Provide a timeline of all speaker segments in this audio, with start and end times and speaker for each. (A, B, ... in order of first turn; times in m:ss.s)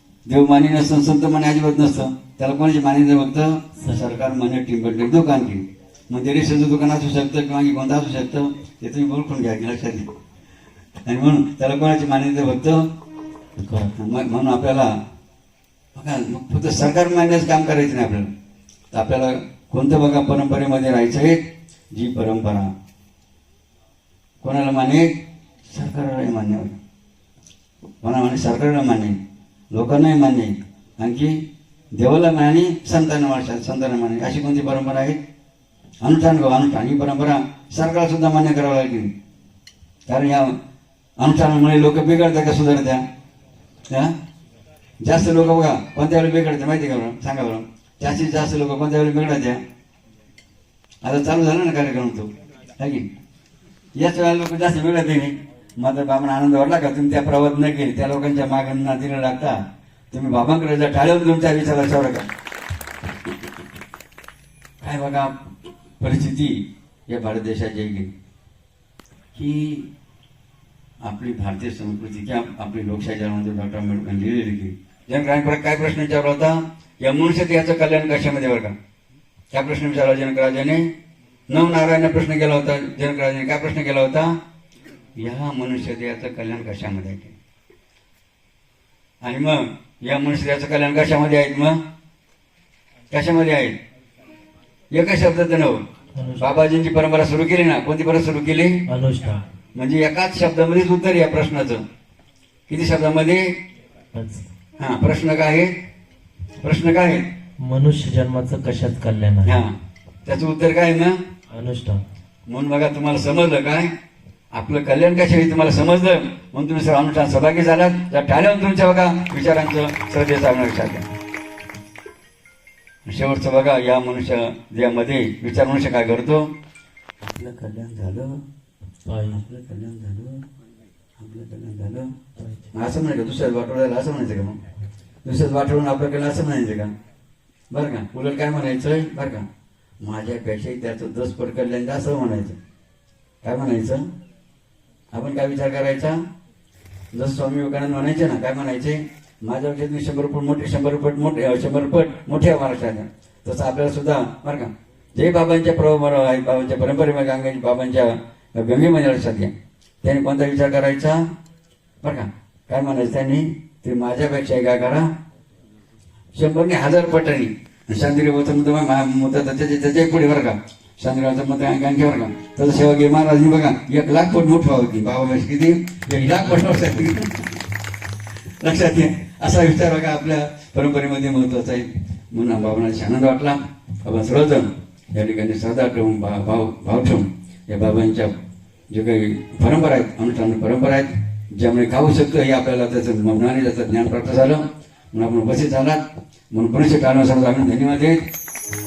0:00.3-0:10.1 A
0:03.8-0:04.2 B
0:11.0-0:12.8 A
0:13.6-0:13.9 B
0:14.0-0:14.9 A
0:16.0-0:18.3 A
0:18.9-0:21.4 A
0:21.9-0:22.7 A
0:24.4-0:25.1 A
0:25.7-0:26.8 A
0:28.0-0:29.2 A
0:29.7-0:31.4 A
0:31.9-0:35.2 A
0:36.0-0:39.1 A
0:40.1-0:40.6 A
0:41.2-0:43.0 A
0:45.0-0:49.6 A
0:51.0-0:53.1 A
0:54.0-0:59.6 A
1:00.1-1:02.3 A
1:04.8-1:05.3 A
1:06.0-1:08.1 A
1:09.3-1:09.9 A
1:11.0-1:18.7 A
1:19.5-1:20.9 A
1:21.5-1:24.4 A
1:25.2-1:27.3 A
1:29.2-1:31.8 A
1:33.1-1:33.8 A
1:34.9-1:35.8 A
1:36.1-1:36.5 B
1:36.4-1:38.8 A
1:38.9-1:39.4 B
1:39.7-1:41.8 A
1:42.7-1:43.4 A
1:44.1-1:44.5 B
1:44.8-1:45.7 A
1:46.6-1:47.2 A
1:47.6-1:49.6 B
1:49.4-1:49.7 A
1:50.2-1:51.2 A
1:51.5-1:52.0 B
1:52.5-1:53.9 A
1:54.5-2:01.0 A
2:03.0-2:06.5 A
2:07.2-2:08.4 A
2:09.0-2:09.4 B
2:09.3-2:10.5 A
2:11.2-2:12.1 A
2:12.4-2:12.7 B
2:12.7-2:14.6 A
2:15.2-2:16.9 A
2:17.7-2:19.4 A
2:20.0-2:22.6 A
2:23.4-2:24.0 A
2:25.1-2:26.2 A
2:27.1-2:41.2 A
2:42.0-2:45.1 A
2:46.4-2:57.6 A
2:56.1-2:57.1 B
2:58.6-3:08.4 A
3:08.9-3:18.2 A